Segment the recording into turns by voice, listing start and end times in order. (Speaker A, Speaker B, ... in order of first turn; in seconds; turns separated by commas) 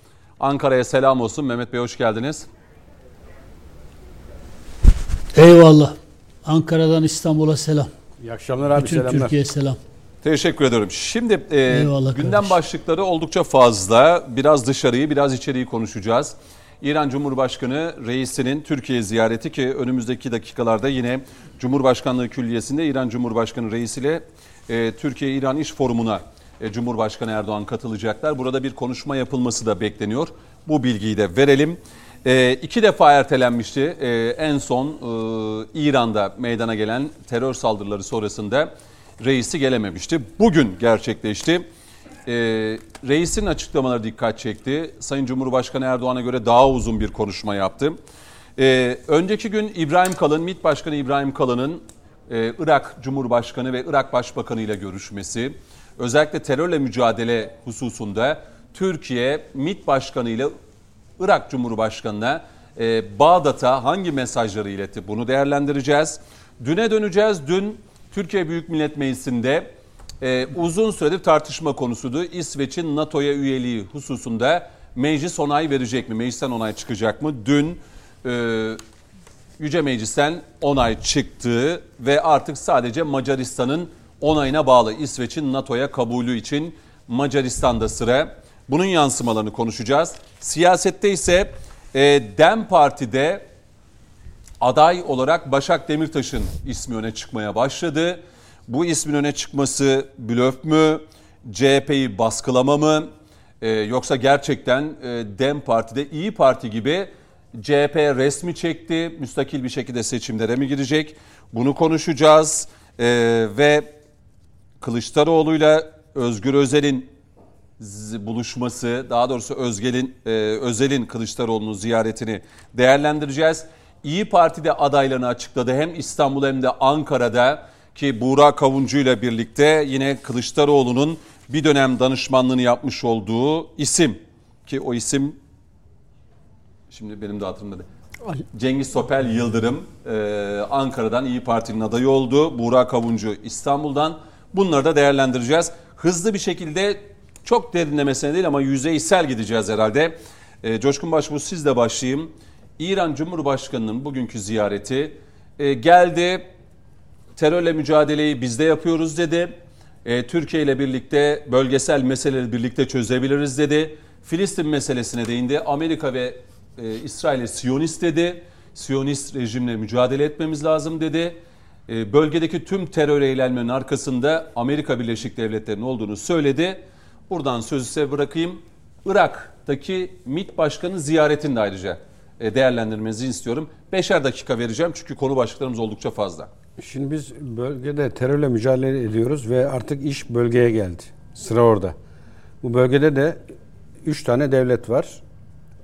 Speaker A: 0.4-2.5, Speaker B: 5.3-7.9, Speaker C: 8.2-9.3, Speaker B: 8.7-9.8, Speaker A: 10.2-41.6, Speaker B: 11.7-12.5, Speaker A: 42.2-48.0, Speaker A: 48.6-60.5, Speaker A: 61.2-69.7, Speaker A: 70.2-78.8, Speaker A: 79.6-93.4, Speaker A: 94.6-103.1, Speaker A: 103.6-113.9, Speaker A: 114.8-117.1, Speaker A: 117.8-135.4, Speaker A: 136.9-137.8, Speaker A: 138.5-156.5, Speaker A: 157.4-186.5, Speaker C: 186.8-191.9, Speaker C: 192.6-193.4, Speaker C: 194.0-195.2